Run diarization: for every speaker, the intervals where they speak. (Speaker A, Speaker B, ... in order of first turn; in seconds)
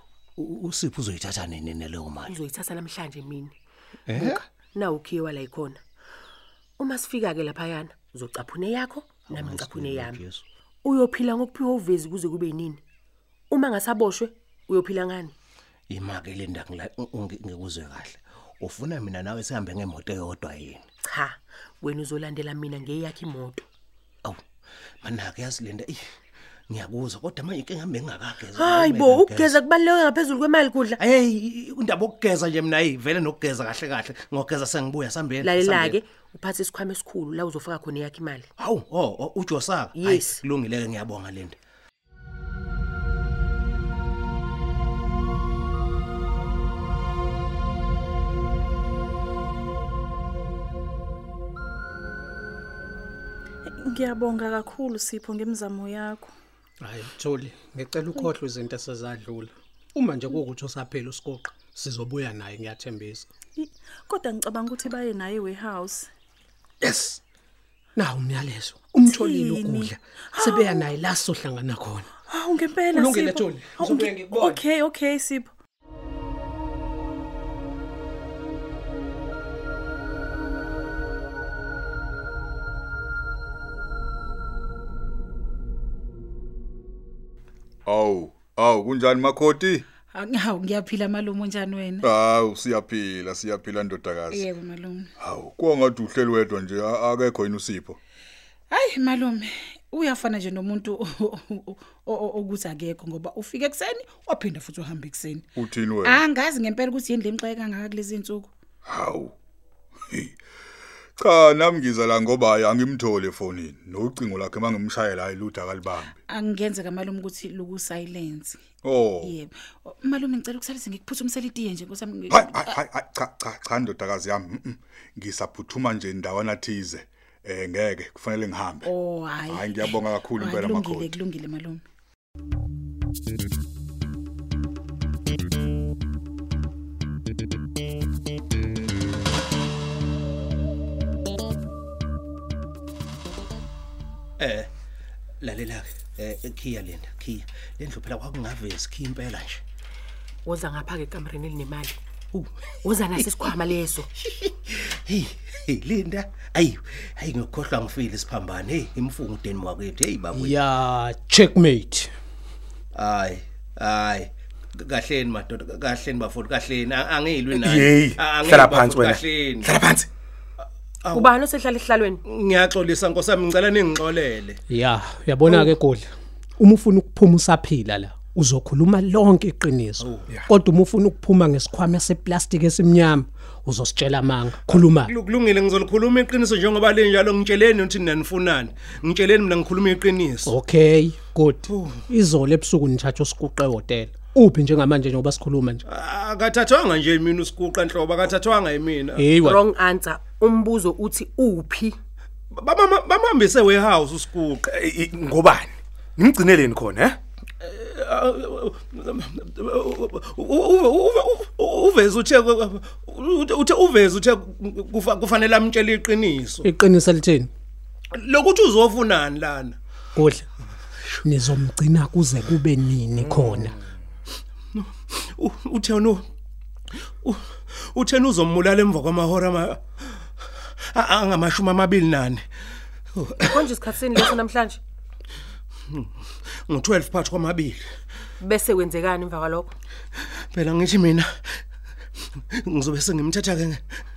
Speaker A: 0.4-2.4, 4.1-4.4, 9.2-10.4, 15.9-20.9, 25.0-26.0, 26.7-29.6, 31.0-36.0, 38.6-41.6, 144.4-144.7, 145.4-149.6, 152.3-153.6, 154.2-160.6, 162.9-169.7, 171.0-171.4, 172.2-174.6, 175.5-175.7, 184.7-190.5, 191.7-192.1, 195.9-199.4, 202.5-204.6, 207.6-216.7, 218.1-219.8, 224.7-226.2, 227.2-229.8, 230.8-232.4, 233.1-233.7, 236.7-237.8, 240.2-241.3, 242.3-243.8
Speaker B: 2.3-3.5, 4.2-5.8, 6.8-10.2, 10.8-12.8, 13.5-15.3, 21.1-23.7, 28.6-31.0, 35.4-38.5, 40.0-40.4, 150.4-152.0, 152.9-154.1, 171.1-172.2, 199.4-202.0, 233.5-234.8, 238.4-239.7
Speaker C: 53.7-56.3, 63.6-66.1, 69.0-70.8, 72.3-75.5
Speaker D: 56.8-63.3, 66.8-67.2, 68.0-72.1, 72.9-74.6, 160.3-162.1, 174.7-185.1, 190.4-195.8, 199.2-199.6, 216.6-217.5, 220.2-220.5, 221.2-223.8
Speaker E: 87.9-89.8, 92.0-94.4, 95.2-98.0, 105.6-106.2, 108.9-109.3, 111.2-116.2, 118.8-119.3, 122.3-128.9, 129.5-131.2
Speaker F: 90.1-92.1, 94.3-95.1, 98.7-105.5, 106.0-108.5, 116.3-118.6, 119.2-122.8, 128.8-131.8
Speaker G: 167.5-170.1, 204.7-207.2